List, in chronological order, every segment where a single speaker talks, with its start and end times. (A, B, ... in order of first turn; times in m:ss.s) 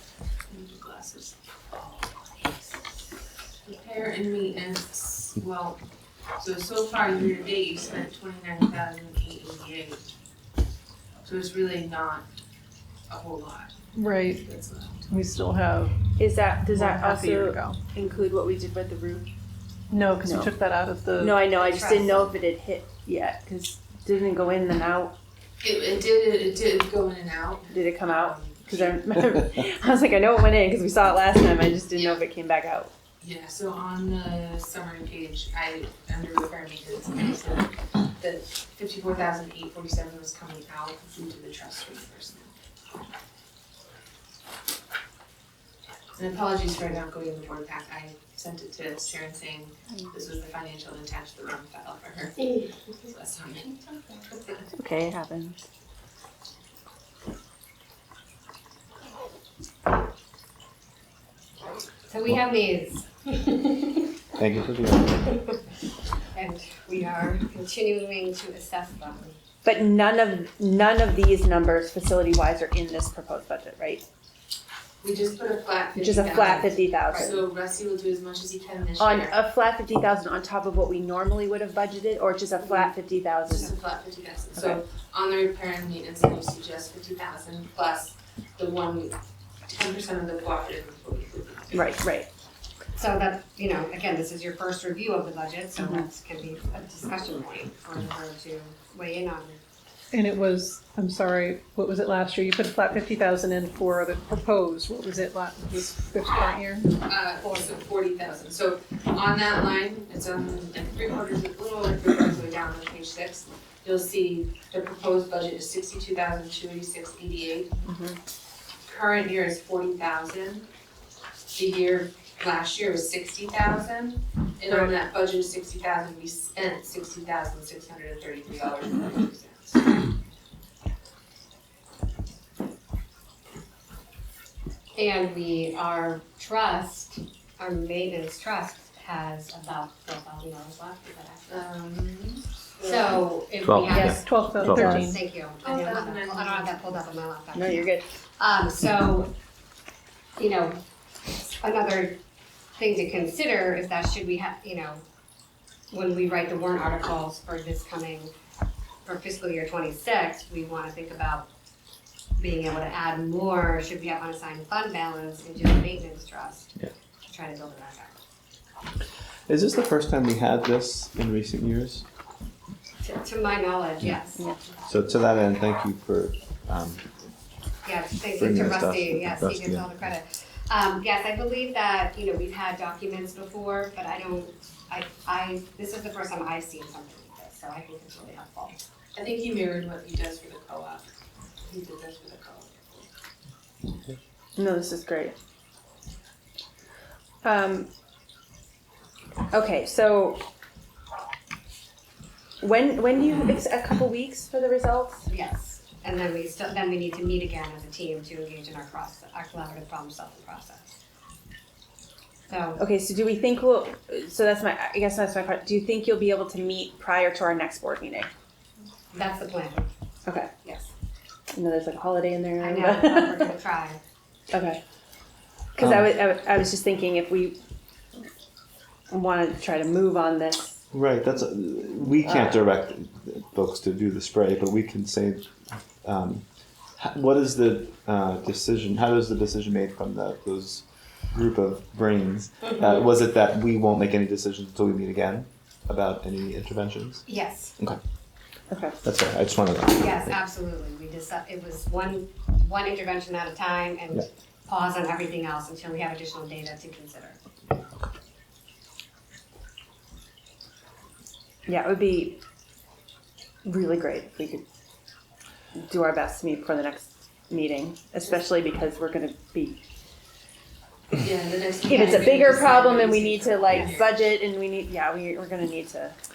0:00.5-0:02.9 A
0:03.6-0:05.8 A
0:06.4-0:10.0 A
0:11.2-0:12.3 A
0:13.1-0:13.7 A
0:13.9-0:14.4 B
0:14.2-0:15.1 A
0:15.1-0:15.9 B
0:16.2-0:19.2 C
0:16.6-0:17.8 B
0:19.9-0:21.5 B
0:20.2-0:20.5 C
0:21.2-0:25.2 C
0:21.5-0:22.3 D
0:25.6-0:29.0 A
0:27.7-0:32.9 C
0:31.9-0:32.2 A
0:33.2-0:42.5 A
0:46.2-0:54.7 A
0:54.7-0:55.6 C
1:02.1-1:04.1 D
1:04.3-1:05.2 E
1:05.2-1:05.5 D
1:06.3-1:09.4 D
1:09.6-1:14.0 C
1:15.0-1:19.3 A
1:15.9-1:17.4 C
1:19.0-1:23.7 C
1:23.4-1:32.0 A
1:31.7-1:32.3 C
1:32.9-1:39.6 D
1:35.8-1:36.0 C
1:40.1-1:47.0 B
1:47.0-1:57.8 A
1:47.4-1:47.7 D
1:57.8-1:58.2 C
1:58.8-2:00.7 A
2:01.5-2:10.0 A
2:14.9-2:21.7 D
2:21.5-2:23.2 A
2:22.8-2:27.8 D
2:23.6-2:25.1 E
2:23.9-2:25.2 B
2:25.6-2:26.8 A
2:27.5-2:28.0 C
2:28.4-2:29.3 D
2:30.4-2:32.2 D
2:32.8-2:35.0 D
2:35.9-2:38.3 D
2:39.0-2:41.5 D
2:42.4-2:46.8 D
2:47.3-2:48.1 D
2:49.5-2:52.0 E
2:53.0-2:54.4 D
2:54.8-2:57.0 E
2:57.8-3:08.8 D
2:58.3-2:59.9 E
3:09.1-3:11.1 A
3:11.6-3:12.8 A
3:14.6-3:15.3 C
3:17.4-3:17.9 C
3:19.5-3:20.4 C
3:22.6-3:25.2 C
3:25.2-3:31.0 D
3:32.5-3:32.8 D
3:32.8-3:38.3 C
3:39.1-3:39.9 D
3:40.6-3:40.9 D
3:41.5-3:43.5 C
3:42.6-3:44.0 D
3:44.5-3:44.8 C
3:45.7-3:47.6 C
3:45.8-3:46.1 E
3:49.1-3:50.8 C
3:50.9-3:56.4 E
3:57.0-4:07.3 E
4:02.6-4:03.0 D
4:07.3-4:07.7 D
4:08.7-4:09.0 C
4:09.0-4:10.2 E
4:10.0-4:17.4 D
4:21.6-4:22.4 C
4:23.6-4:24.6 C
4:25.8-4:29.8 C
4:31.2-4:34.3 A
4:31.9-4:36.2 C
4:31.9-4:32.8 D
4:33.7-4:34.0 D